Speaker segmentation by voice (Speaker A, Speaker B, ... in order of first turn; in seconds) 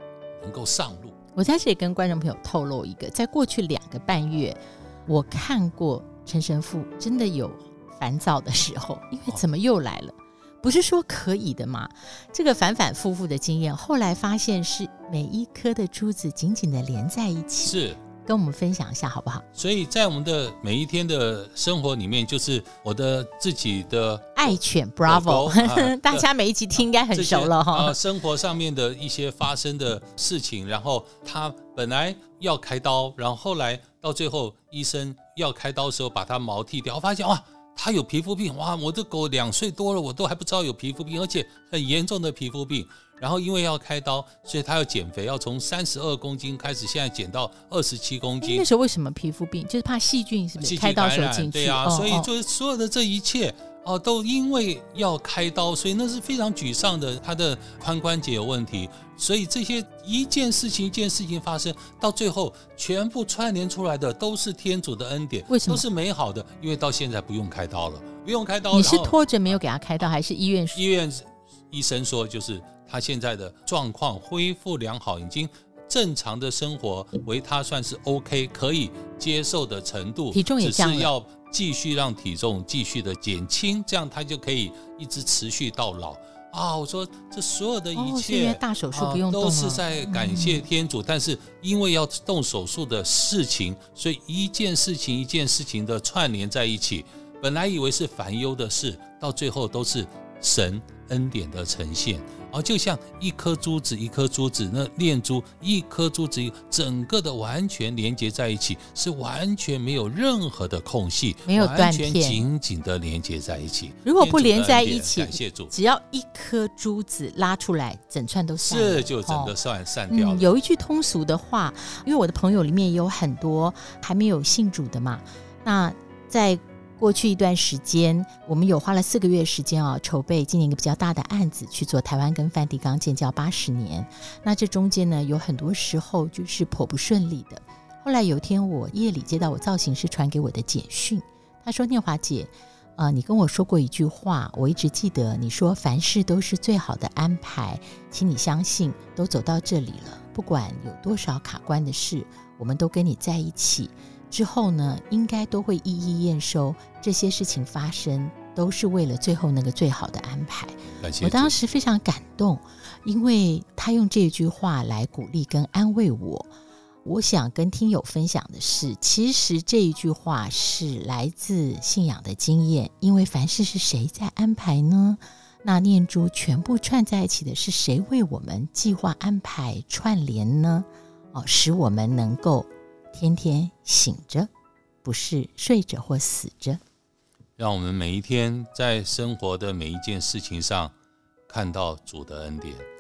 Speaker A: 0.4-1.1, 17.6-18.0, 19.6-26.3, 27.1-48.7, 50.6-69.5, 70.8-115.7, 118.7-120.5, 161.0-161.5, 187.6-190.9, 191.5-192.9
Speaker B: 1.4-19.4, 24.4-28.0, 48.4-52.3, 65.5-65.8, 68.7-70.8, 80.3-81.1, 88.0-90.6, 111.5-112.4, 114.0-119.5, 120.1-166.5, 167.1-184.5, 185.0-186.8